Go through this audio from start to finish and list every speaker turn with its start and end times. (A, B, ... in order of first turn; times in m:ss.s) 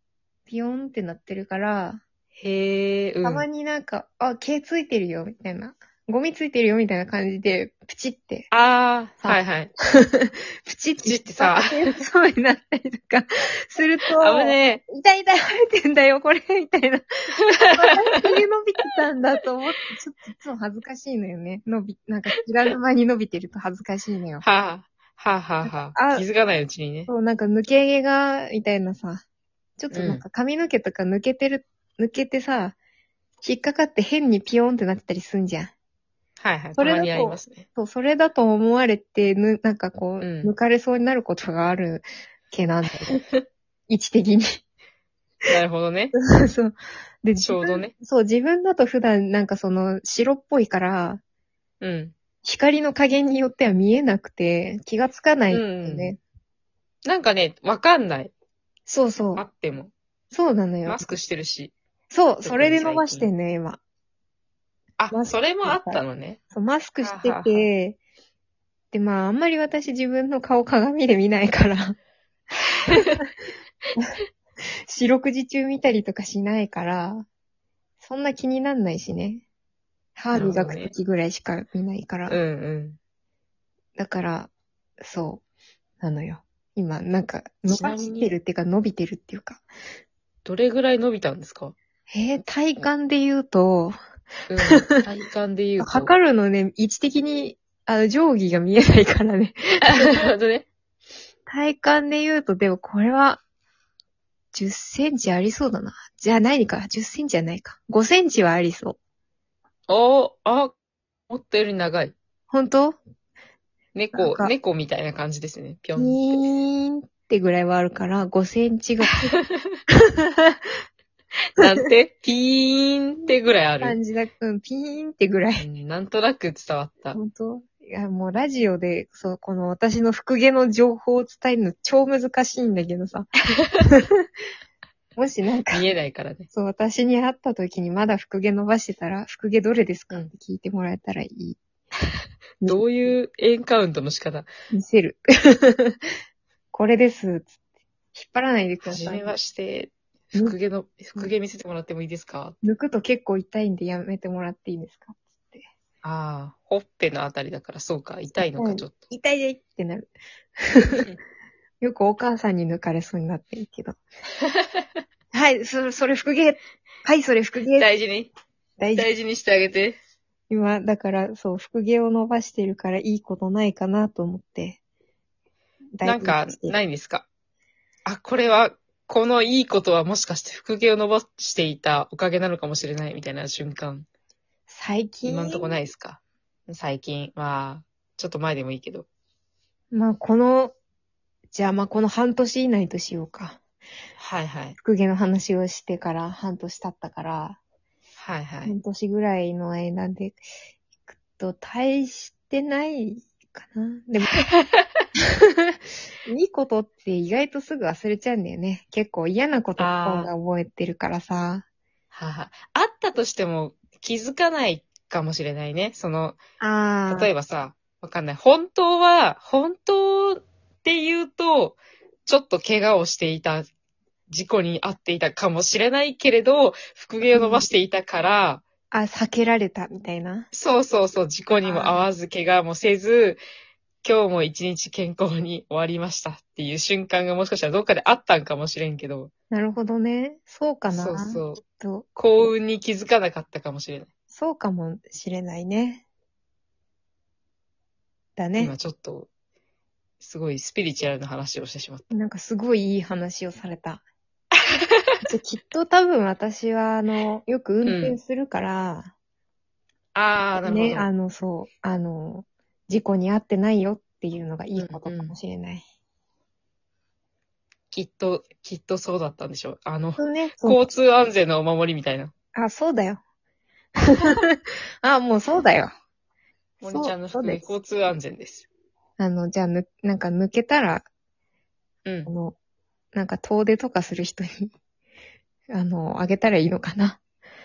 0:00.5-0:02.0 A
0:02.4-0:03.4 B
0:03.2-0:08.5 A
0:08.5-0:09.7 B
0:09.2-0:24.4 A
0:11.0-0:12.0 B
0:14.1-0:14.8 B
0:17.5-0:18.4 B
0:24.4-0:27.1 B
0:25.6-0:26.2 A
0:27.1-0:29.2 A
0:29.8-0:32.8 A
0:29.9-0:30.2 B
0:33.4-0:35.7 A
0:36.4-0:37.7 B
0:36.8-0:43.2 A
0:40.2-0:40.5 B
0:43.1-0:43.4 B
0:43.9-0:44.6 A
0:45.5-0:46.1 B
0:46.2-0:51.2 A
0:47.4-0:47.9 B
0:51.8-0:52.1 B
0:52.4-0:56.2 A
0:55.5-0:56.2 B
0:57.0-0:58.3 B
0:58.9-0:59.5 A
0:59.4-0:59.9 B
1:00.3-1:01.1 A
1:00.9-1:01.7 B
1:02.1-1:03.8 A
1:02.4-1:03.3 B
1:05.0-1:06.4 B
1:05.1-1:08.0 A
1:07.0-1:07.7 B
1:08.9-1:12.0 A
1:12.8-1:13.2 B
1:14.9-1:17.2 A
1:18.0-1:19.4 A
1:20.2-1:22.4 A
1:20.3-1:20.9 B
1:22.3-1:23.0 B
1:24.0-1:25.4 A
1:26.0-1:29.6 A
1:27.7-1:28.3 B
1:30.4-1:31.8 B
1:32.1-1:34.0 A
1:34.5-1:36.1 B
1:35.8-1:40.3 A
1:39.8-1:40.7 B
1:41.5-1:43.4 A
1:44.5-1:49.0 A
1:49.9-1:50.7 B
1:51.3-1:52.2 B
1:52.5-1:53.0 A
1:54.0-1:56.4 B
1:54.1-1:54.5 A
1:56.0-1:59.3 A
1:59.3-1:59.8 B
2:00.2-2:00.6 A
2:01.6-2:04.0 B
2:03.8-2:05.6 A
2:05.6-2:07.2 B
2:07.1-2:13.3 A
2:13.9-2:14.3 A
2:15.2-2:15.8 A
2:15.7-2:16.5 B
2:16.5-2:21.6 A
2:22.6-2:23.2 A
2:22.7-2:24.5 B
2:24.7-2:26.0 A
2:26.7-2:27.5 A
2:28.1-2:29.4 A
2:28.8-2:32.6 B
2:32.6-2:35.6 A
2:36.0-2:39.0 B
2:38.5-2:41.1 A
2:41.8-2:44.0 A
2:44.4-2:44.9 B
2:45.3-2:47.9 A
2:47.7-2:48.3 B
2:48.8-2:49.1 A
2:49.0-2:50.0 B
2:50.5-2:54.8 A
2:56.0-2:56.8 A
2:56.0-2:57.3 B
2:58.1-3:04.1 B
3:04.7-3:05.7 A
3:05.2-3:09.1 B
3:09.9-3:10.8 A
3:11.5-3:13.6 A
3:14.2-3:14.8 B
3:14.8-3:17.6 A
3:18.2-3:18.7 B
3:18.6-3:20.4 A
3:21.1-3:24.3 A
3:24.3-3:24.9 B
3:25.6-3:31.6 A
3:29.8-3:30.3 B
3:32.1-3:36.4 B
3:36.6-3:37.3 A
3:37.1-3:43.7 B
3:44.3-3:48.6 B
3:47.3-3:47.7 A
3:48.9-3:50.5 A
3:50.5-3:53.4 B
3:51.6-3:52.1 A
3:54.0-3:59.3 B
3:59.5-4:02.1 A
4:00.9-4:01.6 B
4:02.2-4:04.1 B
4:04.3-4:06.0 A
4:08.4-4:08.7 A
4:08.6-4:09.3 B
4:10.2-4:12.1 B
4:12.1-4:14.0 A
4:14.8-4:15.2 B
4:15.2-4:19.1 A
4:17.8-4:18.2 B
4:20.2-4:21.1 B
4:20.6-4:25.8 A
4:24.8-4:25.4 B
4:27.9-4:32.3 B
4:30.2-4:30.8 A
4:32.6-4:33.2 A
4:34.1-4:35.9 A
4:36.8-4:38.7 B
4:36.8-4:37.6 A
4:39.2-4:41.1 A
4:42.0-4:42.3 B
4:42.3-4:42.6 A
4:43.1-4:44.7 A
4:45.7-4:47.2 A